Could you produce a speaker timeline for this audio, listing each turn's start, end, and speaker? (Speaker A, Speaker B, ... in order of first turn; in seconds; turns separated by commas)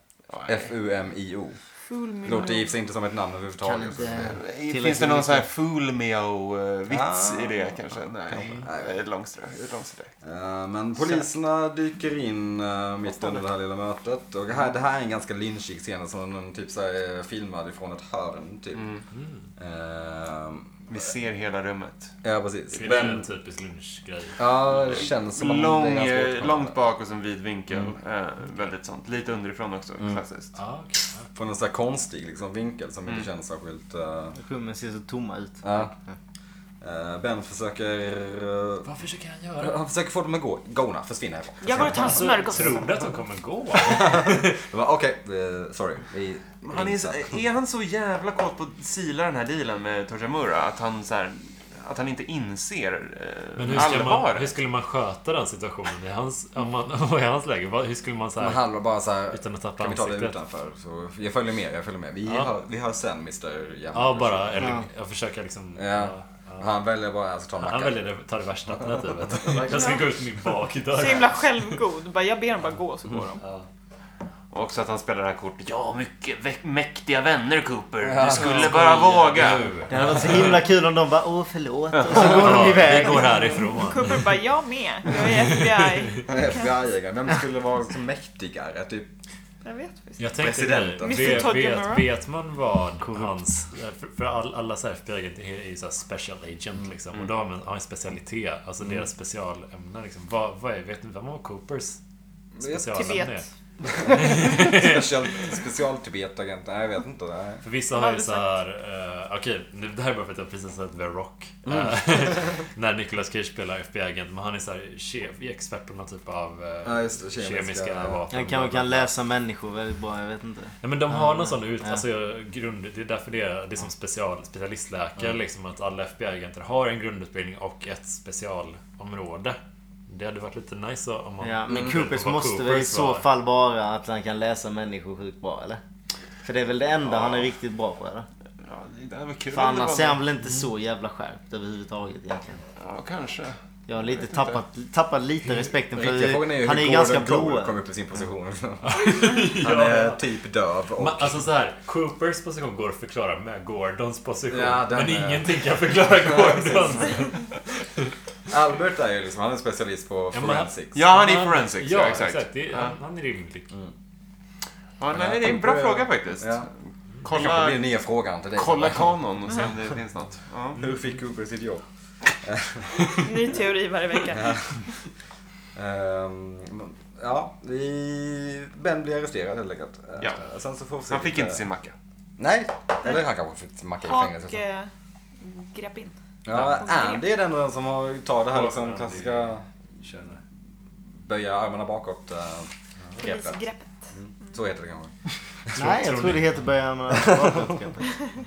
Speaker A: 0.3-0.7, Speaker B: 0.4-1.6, Speaker C: 1.9-2.7, Speaker B: 2.2-4.4, Speaker D: 3.6-5.5, Speaker A: 4.2-10.1, Speaker B: 6.9-7.7, Speaker B: 8.3-9.0, Speaker E: 8.4-8.6, Speaker B: 10.2-18.9, Speaker A: 11.0-11.3, Speaker A: 13.1-13.4, Speaker A: 18.7-19.1, Speaker E: 19.1-19.4, Speaker B: 19.6-21.0, Speaker A: 20.9-22.1, Speaker B: 22.2-23.3, Speaker A: 22.7-23.2, Speaker E: 22.8-24.5, Speaker B: 24.4-26.8, Speaker A: 24.9-30.6, Speaker B: 27.7-27.9, Speaker E: 30.5-31.3, Speaker B: 31.3-34.4, Speaker D: 34.4-35.9, Speaker B: 35.6-35.9, Speaker B: 36.8-38.9, Speaker E: 38.8-39.8, Speaker B: 39.6-42.5, Speaker C: 41.6-42.9, Speaker E: 41.7-44.6, Speaker B: 43.8-47.4, Speaker A: 46.7-54.6, Speaker E: 53.6-58.7, Speaker B: 58.4-64.8, Speaker E: 59.3-60.4, Speaker E: 62.2-62.5, Speaker E: 63.9-66.7, Speaker D: 64.6-64.8, Speaker B: 65.8-68.0, Speaker E: 67.6-71.8, Speaker B: 68.7-69.9, Speaker C: 69.6-70.1, Speaker C: 70.9-73.4, Speaker E: 73.4-73.7, Speaker A: 74.5-80.5, Speaker B: 78.0-78.7, Speaker E: 78.2-80.6, Speaker D: 79.9-83.7, Speaker A: 82.0-82.6, Speaker E: 82.1-84.3, Speaker C: 83.7-86.7, Speaker E: 85.2-86.2, Speaker B: 86.2-89.1, Speaker C: 89.6-90.4, Speaker E: 90.2-102.0, Speaker B: 90.4-91.6, Speaker C: 91.0-92.1, Speaker D: 93.0-93.5, Speaker B: 102.6-102.9, Speaker E: 102.6-103.5, Speaker C: 102.9-103.5, Speaker B: 103.9-107.6, Speaker E: 104.0-105.5, Speaker E: 107.6-119.1, Speaker C: 107.9-108.5, Speaker B: 111.6-112.6, Speaker B: 116.8-118.2, Speaker D: 118.3-122.0, Speaker E: 120.8-133.2, Speaker D: 131.4-135.8, Speaker B: 131.7-132.0, Speaker D: 136.4-138.3, Speaker A: 138.6-140.2, Speaker D: 139.5-142.6, Speaker E: 140.4-140.7, Speaker A: 142.8-143.6, Speaker D: 143.9-147.8, Speaker B: 145.9-151.4, Speaker E: 148.8-150.2, Speaker E: 150.9-158.1, Speaker B: 154.5-157.3, Speaker B: 158.5-161.0, Speaker E: 160.3-163.7, Speaker A: 160.9-162.9, Speaker A: 165.0-166.7, Speaker B: 165.1-166.7, Speaker A: 167.2-167.8, Speaker B: 167.2-169.2, Speaker A: 168.6-170.9, Speaker B: 170.8-171.8, Speaker B: 172.4-173.5, Speaker C: 173.2-174.6, Speaker B: 174.3-174.8, Speaker B: 175.7-181.6, Speaker A: 181.1-181.9, Speaker B: 182.4-184.6, Speaker C: 184.0-187.2, Speaker B: 186.4-189.7, Speaker E: 188.5-190.4, Speaker B: 191.2-195.1, Speaker C: 193.2-194.6, Speaker E: 195.7-196.7, Speaker D: 195.8-198.2, Speaker B: 197.1-197.7